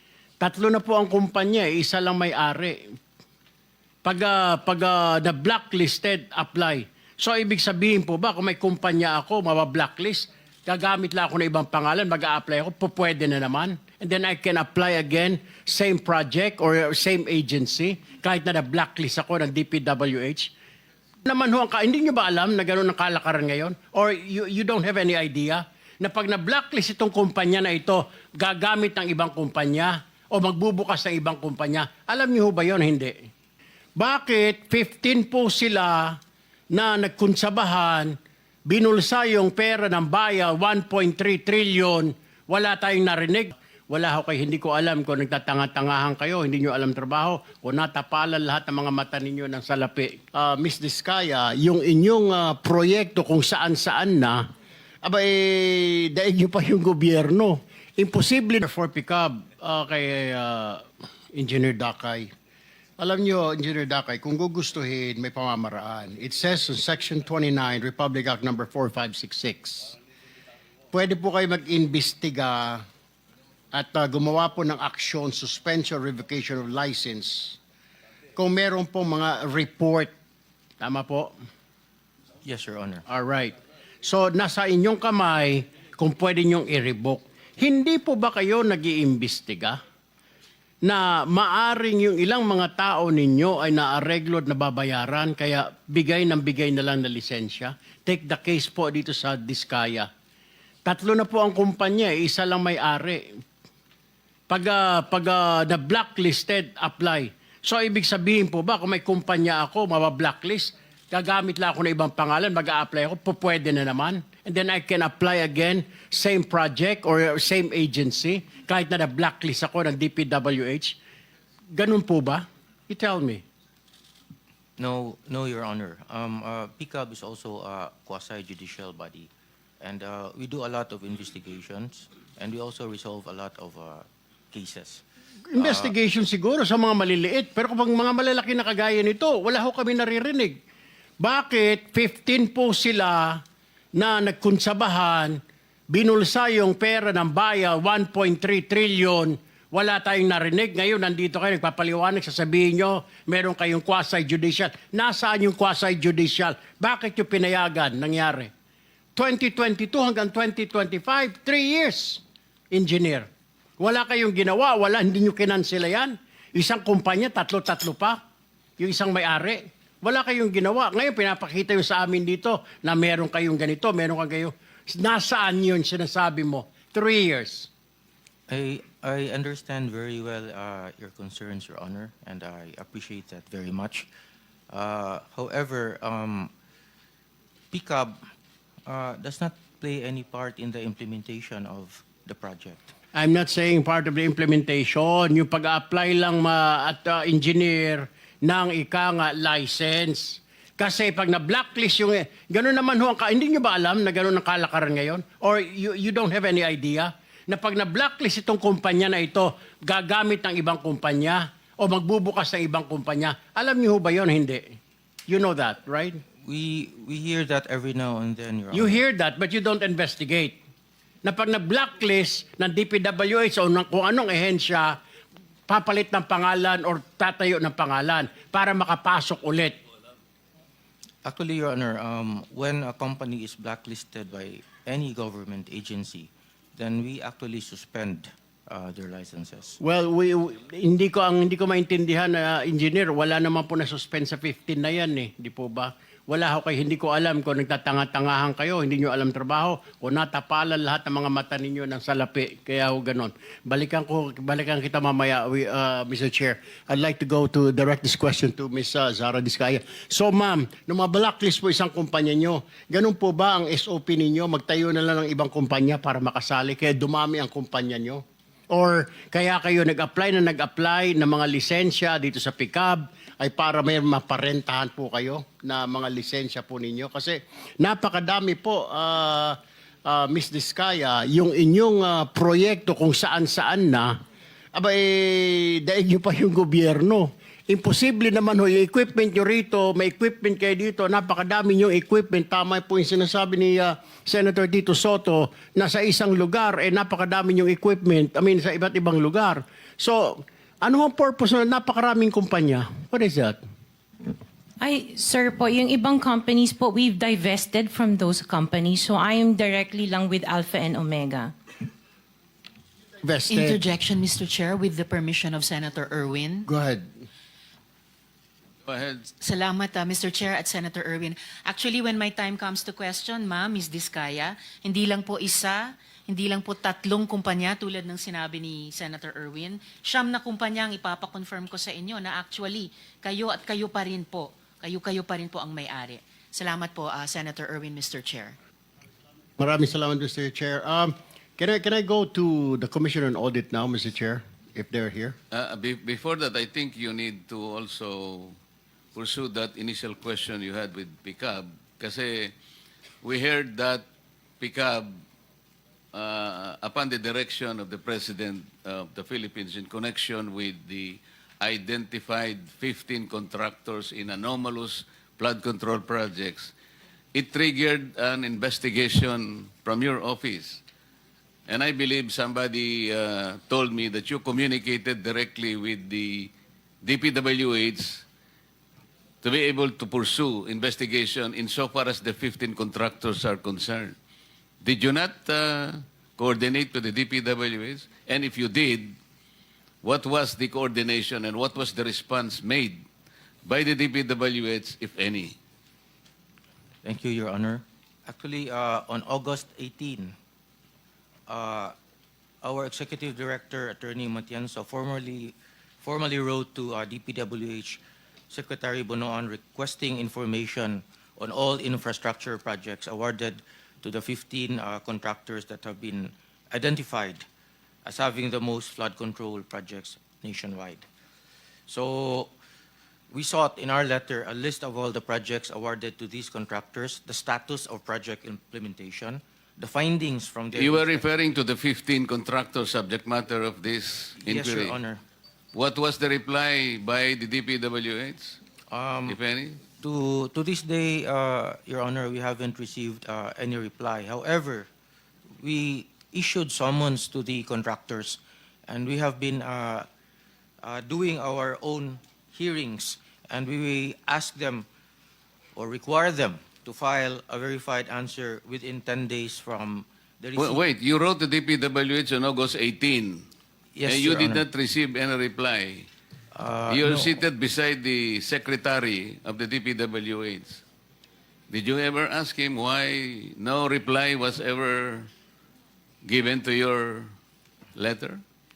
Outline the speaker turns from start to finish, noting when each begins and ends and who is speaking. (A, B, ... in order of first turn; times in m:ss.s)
0:00.4-0:02.8 A
0:04.0-0:20.5 A
0:21.2-0:33.2 A
0:34.0-0:36.2 A
0:36.7-0:38.1 A
0:38.7-0:54.4 A
0:55.0-1:02.3 A
1:03.0-1:09.9 A
1:10.9-1:12.8 A
1:13.7-1:17.6 A
1:18.3-1:20.1 A
1:20.8-1:21.3 A
1:22.4-1:23.0 B
1:23.1-1:29.8 A
1:30.8-1:40.1 A
1:40.8-1:43.3 A
1:44.5-2:01.0 A
2:01.7-2:03.4 A
2:04.8-2:09.3 B
2:09.8-2:15.0 B
2:15.5-2:20.6 A
2:15.6-2:15.9 B
2:21.2-2:23.4 A
2:23.9-2:25.4 A
2:25.9-2:38.5 A
2:39.2-2:43.3 A
2:43.8-2:48.2 A
2:48.8-2:57.7 A
2:58.5-3:04.1 B
3:04.7-3:06.5 B
3:07.7-3:08.2 B
3:08.9-3:12.9 B
3:13.1-3:34.7 A
3:35.3-3:36.2 A
3:36.4-3:39.0 B
3:38.7-3:40.6 A
3:41.2-3:45.0 A
3:45.7-3:49.8 A
3:51.2-3:59.8 B
3:59.8-4:44.1 A
4:44.7-5:03.6 A
5:04.8-5:11.5 C
5:13.2-5:13.8 A
5:13.5-5:16.7 D
5:16.7-5:17.0 A
5:18.8-5:19.3 E
5:19.4-5:38.6 D
5:39.6-5:45.4 A
5:45.5-5:48.6 E
5:49.1-5:52.5 E
5:53.2-5:54.0 E
5:54.6-5:55.1 E
5:56.1-6:06.7 E
6:07.3-6:10.8 E
6:11.7-6:18.2 E
6:19.4-6:24.1 E
6:24.8-6:29.1 E
6:30.0-6:33.0 E
6:33.6-6:35.6 E
6:37.0-6:40.3 B
6:41.5-6:41.9 B
6:42.6-6:57.4 B
6:58.0-7:01.0 B
7:01.9-7:02.5 B
7:03.3-7:11.3 B
7:10.7-7:15.0 E
7:14.4-7:15.2 B
7:15.7-7:18.6 E
7:18.9-7:19.4 B
7:19.2-7:19.8 E
7:20.0-7:24.9 B
7:25.6-7:30.1 B
7:30.8-7:34.9 B
7:35.7-7:40.8 B
7:40.6-7:43.4 E
7:43.9-7:44.6 B
7:44.1-7:46.1 E
7:46.5-7:47.4 B
7:46.9-7:50.8 E
7:51.7-7:55.3 E
7:56.2-7:57.3 E
7:58.0-7:58.4 E